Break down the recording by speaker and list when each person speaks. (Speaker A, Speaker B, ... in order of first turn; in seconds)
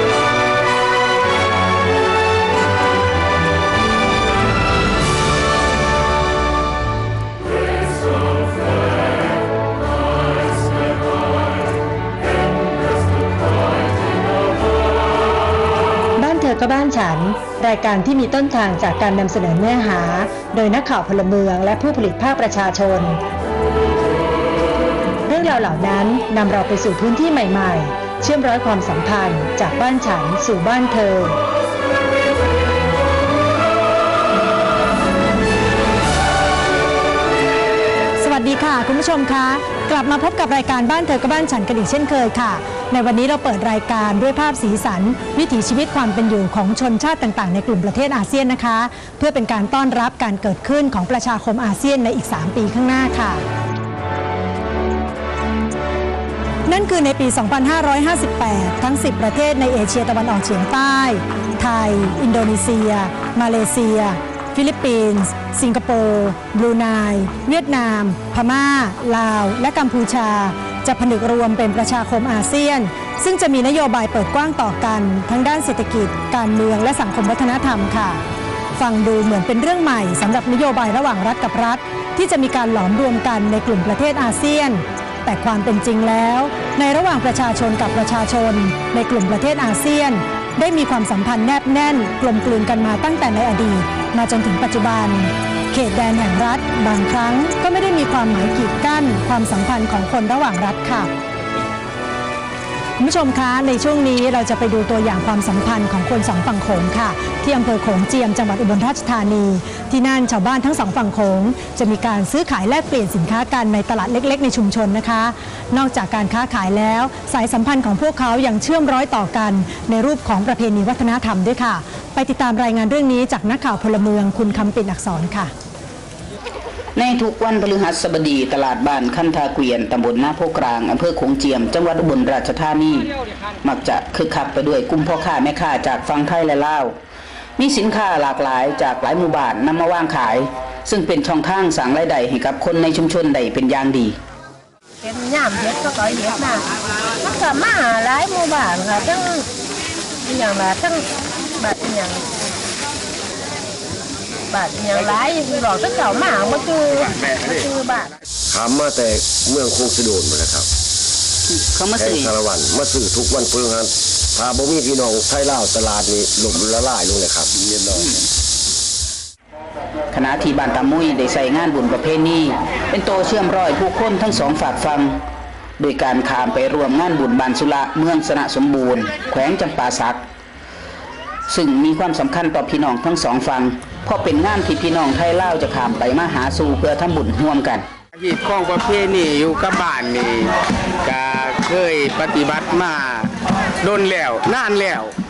Speaker A: 16.1-23.2, 25.3-31.4, 38.2-53.5, 56.7-78.2, 78.8-101.1, 103.0-125.5
Speaker B: 127.0-133.1, 133.6-136.9, 137.6-144.2, 161.5-162.3, 170.1-175.2, 175.8-180.2, 181.5-187.8
Speaker C: 145.0-149.4, 150.2-151.0, 151.6-152.3, 154.5-158.1
Speaker D: 158.5-160.7, 161.9-168.1
Speaker E: 188.2-190.5, 191.0-193.3, 193.8-195.1